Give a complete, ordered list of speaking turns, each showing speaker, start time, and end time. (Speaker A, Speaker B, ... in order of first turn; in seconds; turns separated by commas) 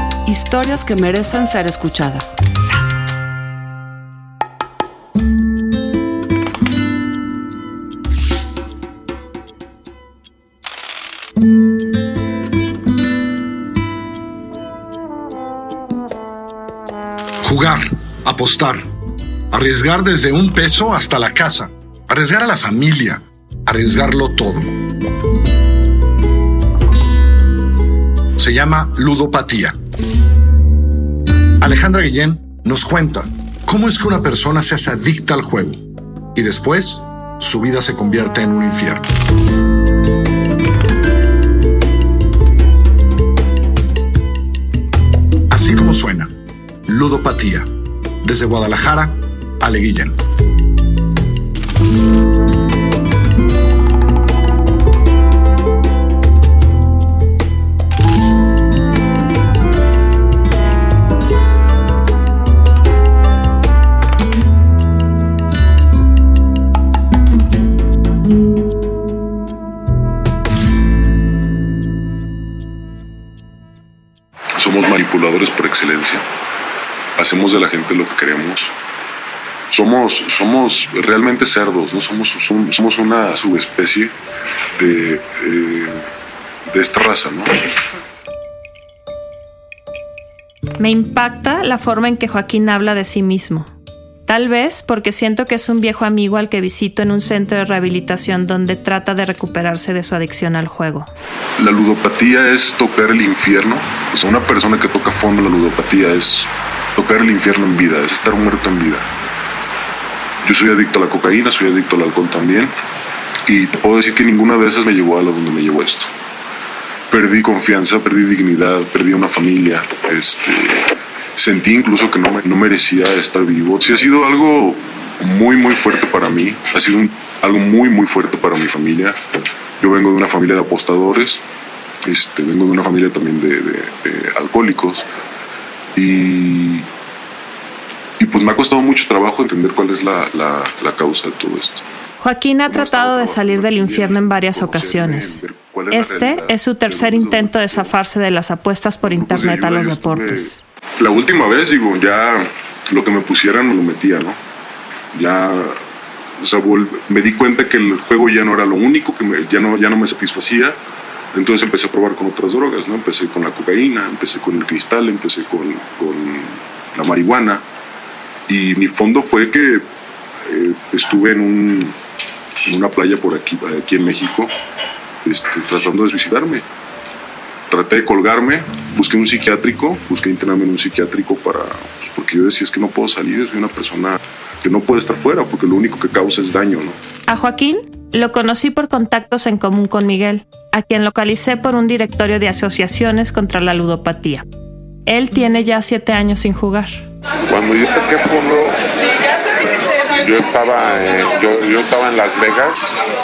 Speaker A: 0.2-2.4, Speaker B: 17.4-18.8, Speaker B: 19.5-24.7, Speaker B: 28.4-29.8, Speaker B: 31.6-35.8, Speaker B: 36.3-39.1, Speaker B: 45.5-46.3, Speaker B: 46.9-47.7, Speaker B: 48.2-50.2, Speaker C: 74.6-76.2, Speaker C: 77.2-78.7, Speaker C: 79.7-84.1, Speaker C: 84.7-86.0, Speaker C: 86.7-87.5, Speaker D: 90.8-93.7, Speaker D: 94.2-101.1, Speaker C: 101.6-109.1, Speaker C: 110.4-112.7, Speaker C: 113.5-116.1, Speaker C: 117.1-129.2, Speaker C: 129.8-131.4, Speaker C: 132.0-135.1, Speaker C: 135.9-136.9, Speaker C: 138.2-141.8, Speaker D: 142.2-150.6, Speaker C: 142.7-147.9, Speaker C: 149.0-154.4, Speaker C: 155.1-155.8, Speaker C: 156.4-160.8, Speaker C: 161.3-167.6, Speaker C: 168.5-169.8, Speaker C: 170.4-172.0, Speaker C: 172.6-174.5, Speaker C: 175.2-176.6, Speaker C: 177.7-187.0, Speaker D: 187.3-194.4, Speaker D: 195.1-197.0, Speaker E: 197.5-198.8, Speaker E: 200.1-203.0